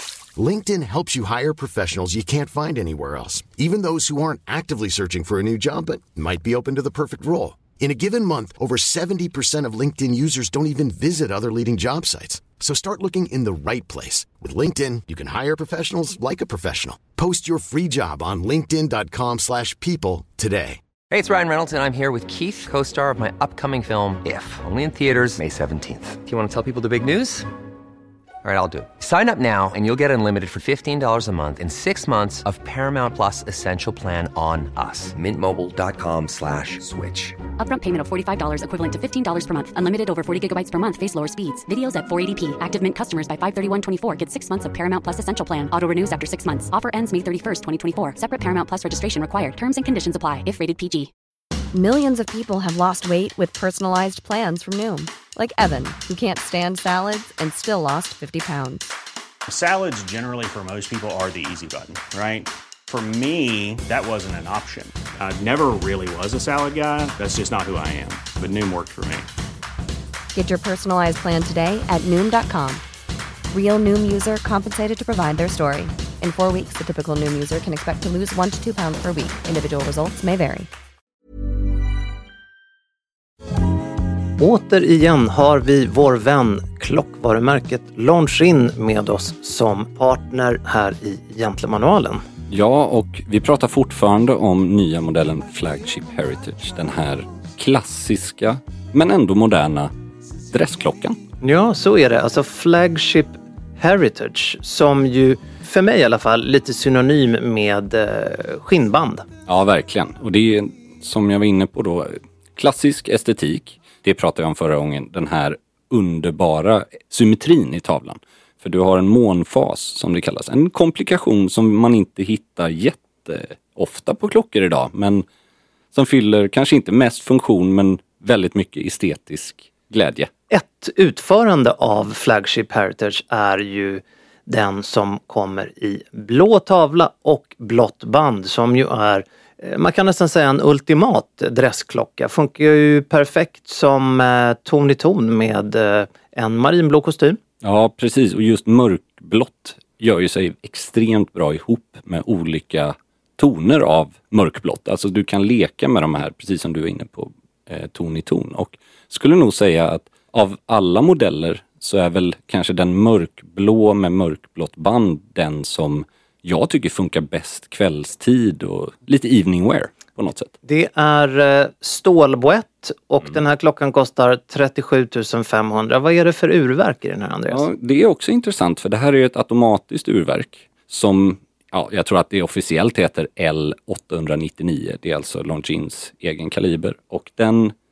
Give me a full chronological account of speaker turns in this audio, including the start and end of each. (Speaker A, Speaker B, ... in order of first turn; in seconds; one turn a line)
Speaker A: 0.3-20.8
Speaker B: 21.1-27.5
Speaker B: 28.4-37.4
Speaker C: 37.6-51.1
Speaker D: 51.7-58.9
Speaker E: 59.5-69.3
Speaker D: 70.3-72.8
Speaker D: 73.5-80.7
Speaker F: 84.4-92.2
Speaker G: 92.5-99.9
Speaker G: 100.5-101.2
Speaker F: 101.4-109.2
Speaker G: 109.5-125.2
Speaker G: 125.9-130.3
Speaker F: 130.5-147.4
Speaker G: 147.6-170.5
Speaker F: 170.6-177.6
Speaker G: 177.5-187.7